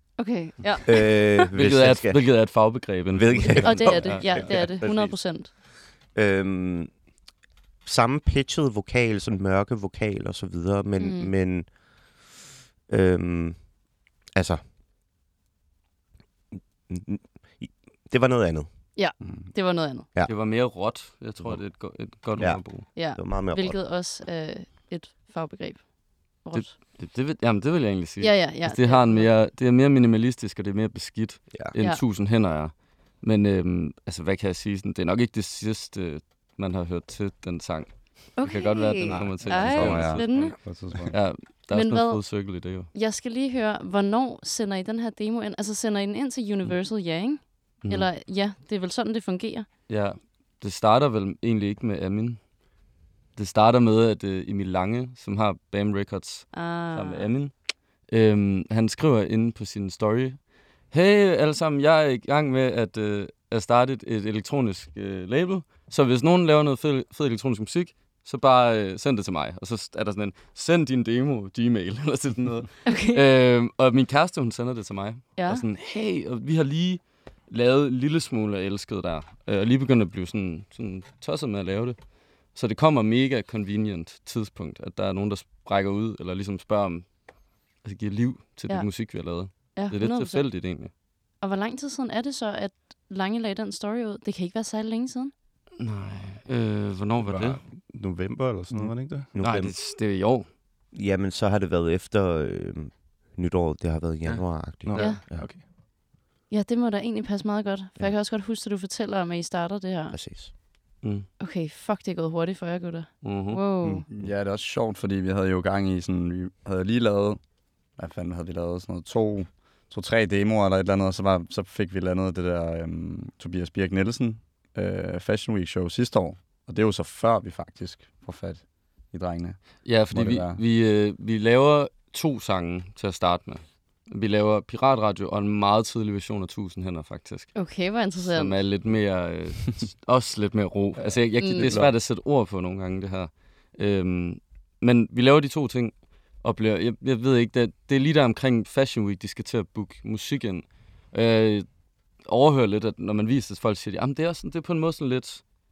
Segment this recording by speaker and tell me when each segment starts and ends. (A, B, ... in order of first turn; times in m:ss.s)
0:00.2-0:01.4 A
0:00.8-0:02.2 B
0:01.5-0:04.7 C
0:03.1-0:05.2 B
0:03.6-0:05.5 A
0:06.1-0:06.9 B
0:07.8-0:11.7 B
0:11.0-0:11.3 A
0:12.9-0:13.6 B
0:14.3-0:14.6 B
0:16.9-0:18.7 B
0:19.0-0:20.1 A
0:20.3-0:22.9 C
0:22.4-0:23.8 B
0:22.9-0:25.9 A
0:26.4-0:26.7 A
0:26.5-0:40.4 C
0:28.2-0:29.3 A
0:38.4-0:40.6 A
0:39.4-0:41.1 D
0:41.1-0:42.9 C
0:41.7-0:42.2 A
0:42.9-0:49.7 A
0:49.9-0:52.4 C
0:53.4-0:57.5 C
0:56.5-0:57.3 A
0:58.1-1:22.0 C
1:12.8-1:13.2 A
1:15.4-1:15.6 A
1:22.5-1:27.1 C
1:27.8-1:30.9 C
1:28.7-1:30.5 A
1:31.4-1:35.3 A
1:35.8-1:37.6 C
1:37.2-1:39.3 E
1:39.3-1:39.7 B
1:39.4-1:40.5 C
1:40.9-1:45.5 B
1:44.8-1:45.6 E
1:44.9-1:45.2 C
1:46.5-1:50.1 A
1:50.1-1:50.5 B
1:51.0-1:51.3 C
1:51.4-1:54.0 A
1:53.2-1:53.6 C
1:54.1-1:57.4 D
1:58.0-2:10.6 D
2:09.8-2:17.5 C
2:17.5-2:18.6 A
2:18.3-2:31.6 C
2:21.4-2:21.7 A
2:21.6-2:21.9 D
2:32.2-2:35.4 C